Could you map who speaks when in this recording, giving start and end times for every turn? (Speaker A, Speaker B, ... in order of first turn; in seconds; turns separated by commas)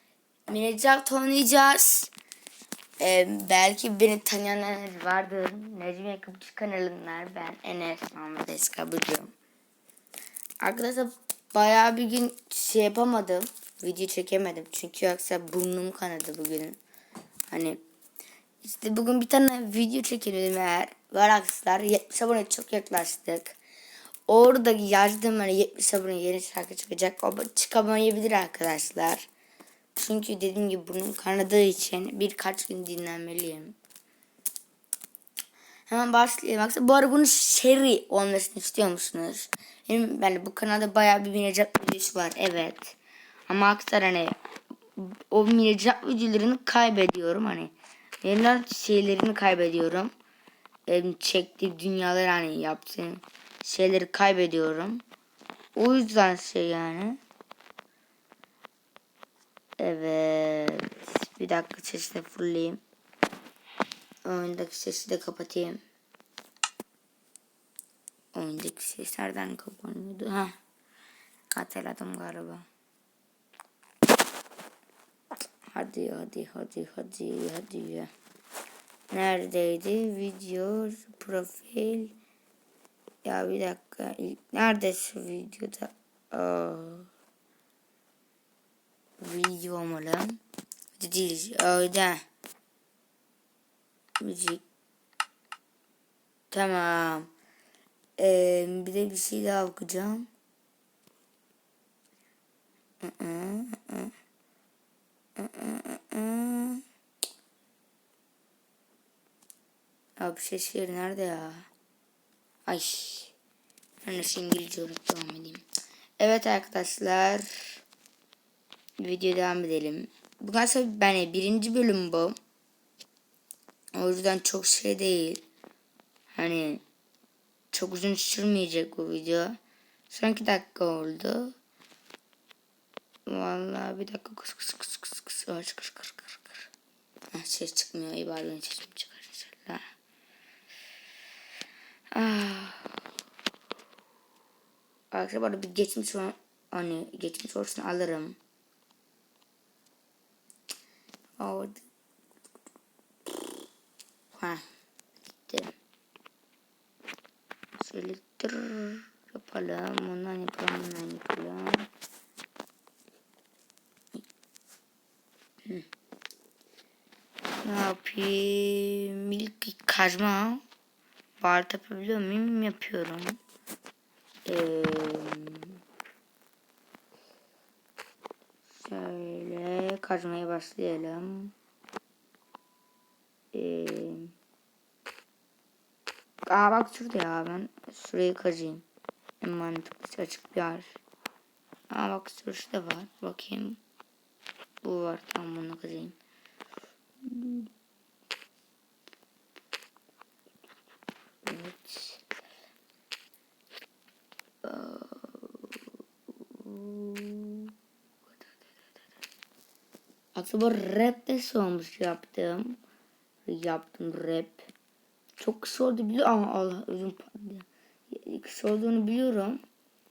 Speaker A: 0.5-2.1, Speaker A: 3.0-9.3, Speaker A: 10.6-16.8, Speaker A: 17.5-17.8, Speaker A: 18.6-23.6, Speaker A: 24.3-29.3, Speaker A: 29.9-33.7, Speaker A: 35.9-43.0, Speaker A: 43.5-44.4, Speaker A: 45.0-50.1, Speaker A: 50.9-55.0, Speaker A: 55.8-57.2, Speaker A: 59.8-62.8, Speaker A: 64.2-65.8, Speaker A: 68.3-70.5, Speaker A: 71.5-72.7, Speaker A: 75.7-78.1, Speaker A: 79.1-82.1, Speaker A: 83.2-87.1, Speaker A: 89.2-90.4, Speaker A: 91.0-92.2, Speaker A: 94.2-94.6, Speaker A: 96.5-97.3, Speaker A: 98.2-100.3, Speaker A: 103.0-104.1, Speaker A: 105.3-106.8, Speaker A: 110.2-111.7, Speaker A: 112.7-113.3, Speaker A: 114.0-115.6, Speaker A: 116.2-117.8, Speaker A: 119.0-122.3, Speaker A: 123.9-125.4, Speaker A: 126.3-126.8, Speaker A: 127.7-129.6, Speaker A: 130.1-131.5, Speaker A: 133.3-136.7, Speaker A: 137.3-139.8, Speaker A: 142.1-142.9, Speaker A: 145.1-148.4, Speaker A: 151.4-151.8, Speaker A: 154.3-154.6, Speaker A: 155.5-155.7, Speaker A: 157.8-161.9, Speaker A: 167.6-170.6, Speaker A: 171.4-173.4, Speaker A: 174.4-175.8, Speaker A: 178.7-181.5, Speaker A: 183.5-184.3, Speaker A: 186.4-188.8, Speaker A: 189.4-190.9, Speaker A: 191.9-193.8, Speaker A: 194.8-196.2, Speaker A: 197.2-197.7, Speaker A: 201.4-202.2, Speaker A: 204.6-207.7, Speaker A: 210.3-212.8, Speaker A: 213.5-214.7, Speaker A: 215.4-219.6